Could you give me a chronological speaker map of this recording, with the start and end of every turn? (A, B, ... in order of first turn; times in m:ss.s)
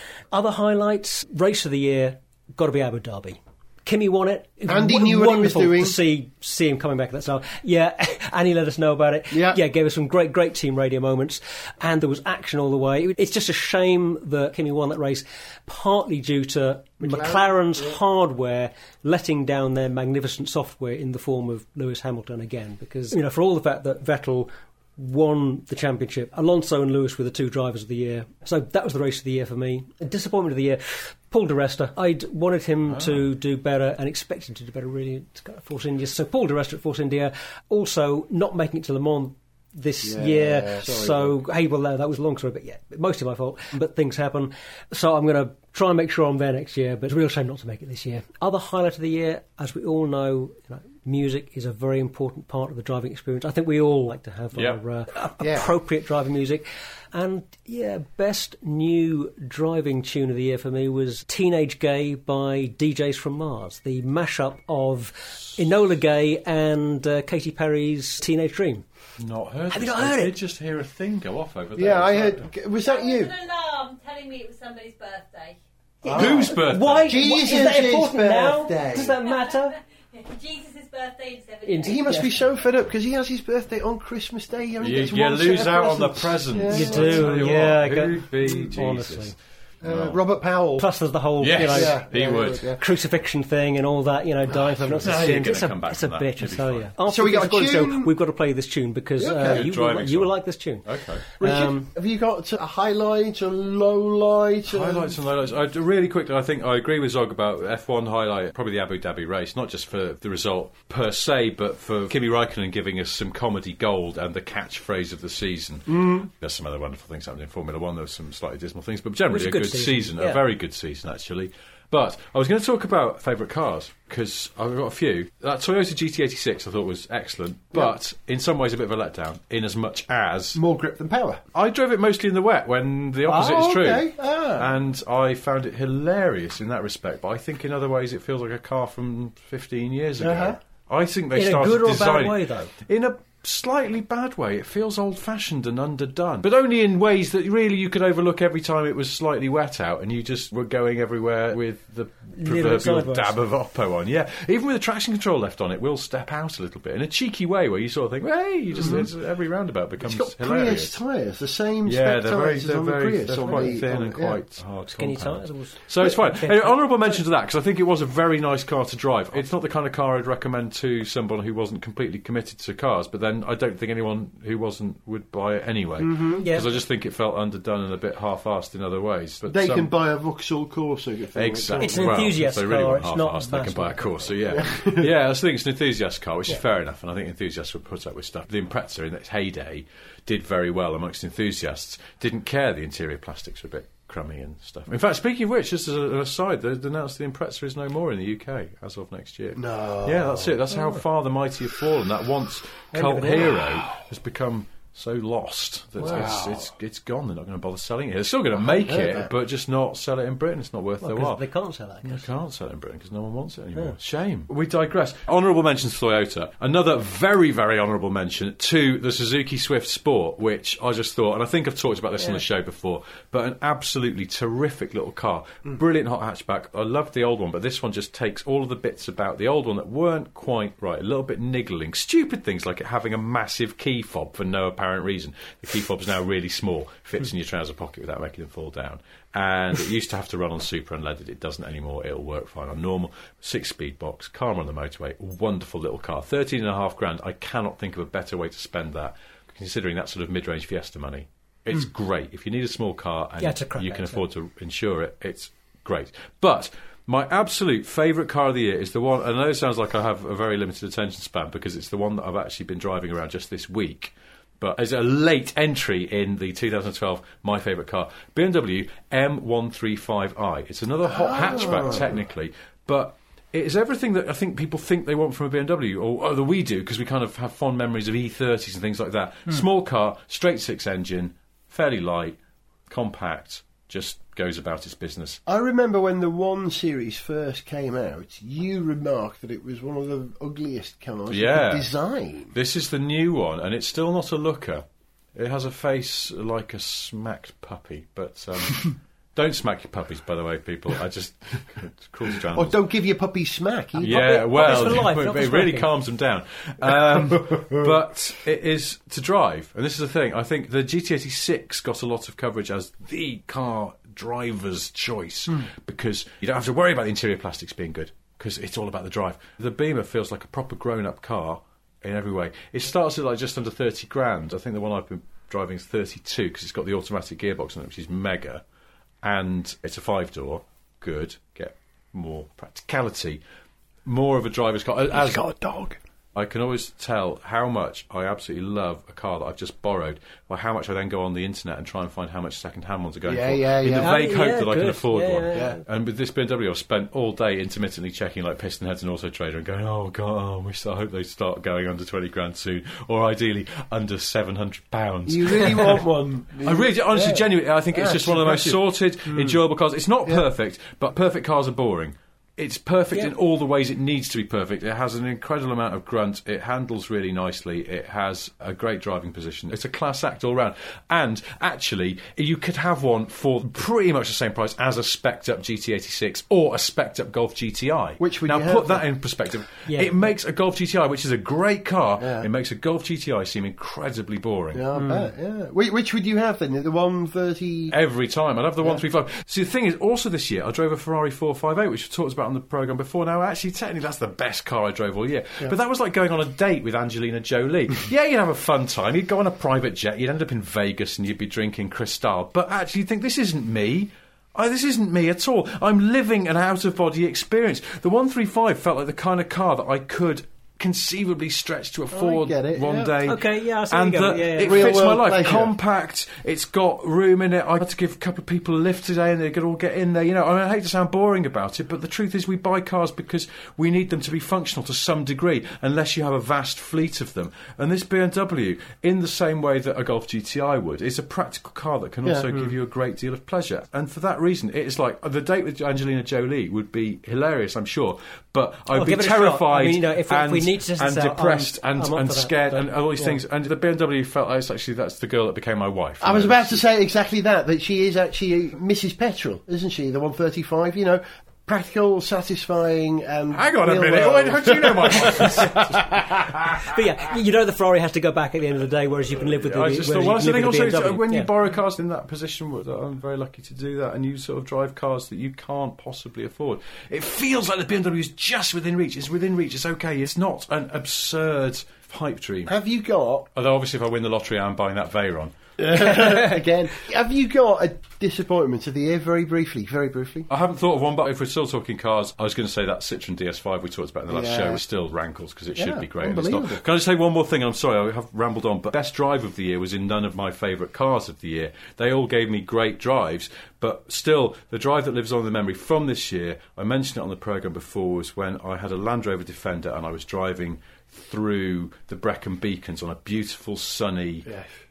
0:00.3-1:08.8 A
0:04.7-0:06.0 B
0:09.3-0:09.6 B
0:17.0-0:18.0 B
0:32.9-0:33.2 C
0:40.0-0:41.4 B
0:55.4-0:55.7 B
1:09.2-1:12.5 C
1:09.7-1:10.3 A
1:11.8-1:13.3 B
1:13.0-1:15.6 D
1:16.0-1:19.8 A
1:16.1-1:16.5 B
1:16.1-1:17.2 C
1:17.0-1:19.2 B
1:20.2-1:22.2 D
1:21.6-1:22.4 A
1:21.8-1:27.6 B
1:24.8-1:30.2 C
1:26.7-1:29.3 A
1:29.8-1:30.9 B
1:30.8-1:32.0 A
1:31.4-1:32.7 C
1:31.6-1:32.8 B
1:32.8-1:40.8 A
1:34.9-1:36.9 C
1:35.0-1:35.5 B
1:37.1-1:38.1 B
1:39.2-1:39.6 B
1:39.4-1:41.2 C
1:41.4-1:41.9 A
1:41.4-1:45.2 B
1:44.7-2:10.6 C
1:55.9-1:56.2 B
1:59.3-2:00.4 A
2:10.5-2:11.4 B
2:11.5-2:40.9 C
2:13.2-2:14.7 B
2:20.2-2:20.6 B
2:21.3-2:22.7 A
2:32.3-2:33.4 A
2:38.8-2:39.1 B
2:40.0-2:44.4 B
2:41.8-2:59.9 C
2:43.4-2:43.7 A
2:44.9-2:47.2 A
2:56.0-2:56.4 B
2:56.4-2:56.7 A
2:59.5-3:02.3 B
3:01.3-3:31.4 C
3:01.8-3:04.3 A
3:04.5-3:05.1 B
3:19.6-3:20.8 B
3:22.9-3:23.6 A
3:26.0-3:26.7 B
3:28.6-3:29.3 B
3:31.0-3:32.3 A
3:32.0-4:42.4 C
4:13.4-4:14.2 A
4:31.0-4:32.2 B
4:42.9-4:45.4 C
4:45.5-4:52.5 B
4:51.3-4:51.9 C
4:52.5-5:02.8 C
5:02.4-5:05.0 B
5:04.0-5:28.6 C
5:04.0-5:05.9 A
5:07.3-5:07.9 B
5:29.2-5:33.4 C
5:34.0-5:35.4 C
5:35.1-5:36.0 B
5:36.3-5:56.0 C
5:43.2-5:44.2 B
5:44.0-5:45.8 A
5:55.3-5:59.6 B
5:56.6-6:24.8 C
6:18.2-6:19.0 B
6:19.9-6:20.1 A
6:22.2-6:22.5 B
6:24.7-6:27.9 B
6:25.0-6:25.3 A
6:27.9-7:26.8 C
6:52.1-6:53.1 B
6:53.2-6:55.0 A
6:54.6-6:55.7 B
7:12.2-7:12.5 B
7:18.9-7:23.4 A
7:26.2-7:36.4 B
7:33.5-7:36.8 C
7:35.4-7:35.6 A
7:36.8-7:41.5 A
7:39.6-7:52.7 C
7:52.7-7:53.5 B
7:53.5-7:55.5 C
7:55.8-8:00.5 B
8:00.5-8:24.5 C
8:04.3-8:04.8 B
8:05.8-8:06.8 B